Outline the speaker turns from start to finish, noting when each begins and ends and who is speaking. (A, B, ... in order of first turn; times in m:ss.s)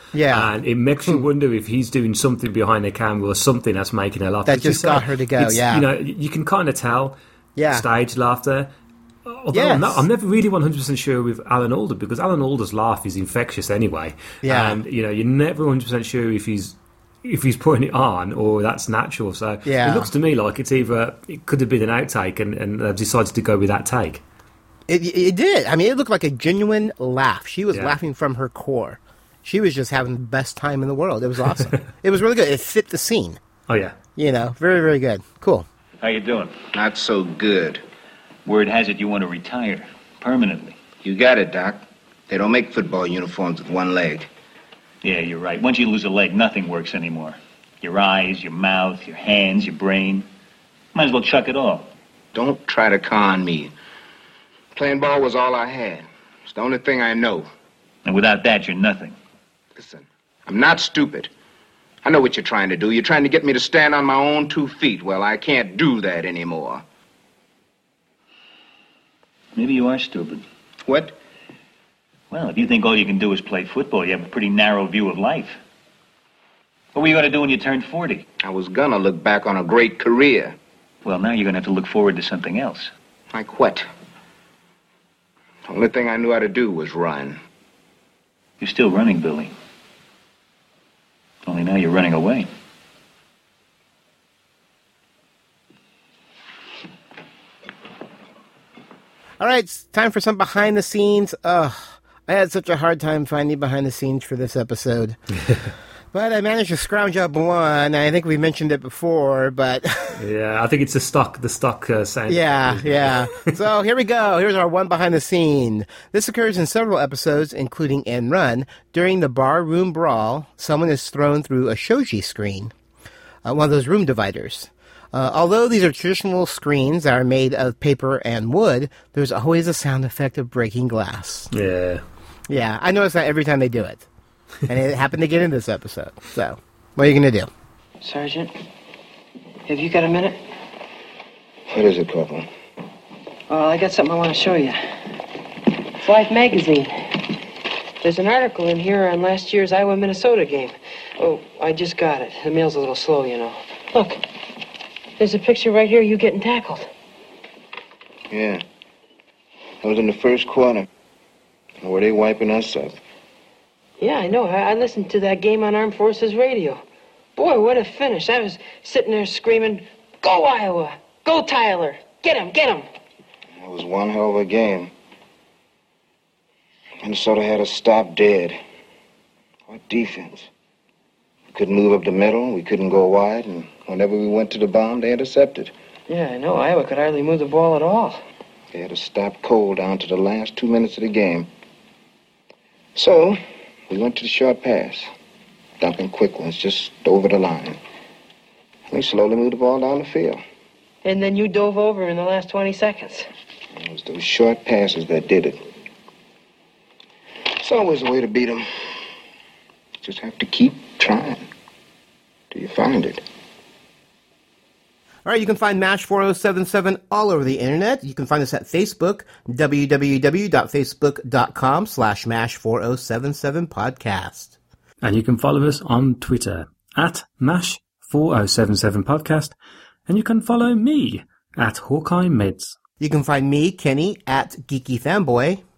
0:00.1-0:00.5 A
0:00.3-0:07.2 B
0:04.4-0:05.9 A
0:07.6-0:07.9 A
0:07.7-0:08.7 B
0:09.2-0:24.2 B
0:09.5-0:10.1 A
0:14.4-0:14.8 A
0:19.6-0:20.1 A
0:24.9-0:33.4 A
0:27.7-0:28.0 B
0:33.7-0:34.0 B
0:34.2-0:35.6 A
0:36.0-0:36.5 C
0:36.7-0:37.8 D
0:38.4-0:40.7 C
0:41.0-0:44.3 D
0:45.0-0:50.3 C
0:50.9-0:51.9 C
0:52.3-0:53.7 D
0:54.7-0:57.4 D
0:58.0-0:59.2 C
0:59.8-1:01.3 D
1:02.0-1:06.8 D
1:09.6-1:10.4 C
1:10.8-1:11.2 D
1:12.3-1:15.6 C
1:16.9-1:18.2 C
1:18.4-1:20.5 D
1:21.0-1:22.9 C
1:23.3-1:23.8 D
1:25.7-1:27.4 D
1:28.6-1:29.5 C
1:31.5-1:32.5 C
1:39.4-1:45.2 A
1:46.1-1:50.2 A
1:50.2-1:53.5 B
1:52.3-2:02.7 A
2:03.4-2:11.5 A
2:11.5-2:12.0 B
2:12.5-2:14.0 A
2:14.7-2:17.5 A
2:18.0-2:18.5 E
2:19.7-2:20.4 E
2:21.7-2:22.5 D
2:23.5-2:24.8 E
2:26.0-2:27.3 E
2:28.0-2:34.2 E
2:35.2-2:36.9 E
2:38.3-2:38.6 D
2:39.8-2:40.9 D
2:41.8-2:43.0 D
2:44.0-2:46.8 E
2:47.4-2:52.8 E
2:53.6-2:54.9 D
2:57.0-2:58.6 D
2:59.7-3:00.5 D
3:01.5-3:05.7 D
3:06.1-3:08.2 E
3:08.7-3:11.5 D
3:13.0-3:13.4 D
3:13.9-3:15.0 D
3:15.8-3:17.8 D
3:18.9-3:20.4 D
3:21.0-3:23.3 E
3:23.8-3:25.6 D
3:27.6-3:28.6 D
3:30.0-3:31.4 D
3:32.5-3:33.2 D
3:35.2-3:44.6 A
3:45.0-3:49.6 B
3:50.1-3:52.8 B
3:53.0-3:55.6 A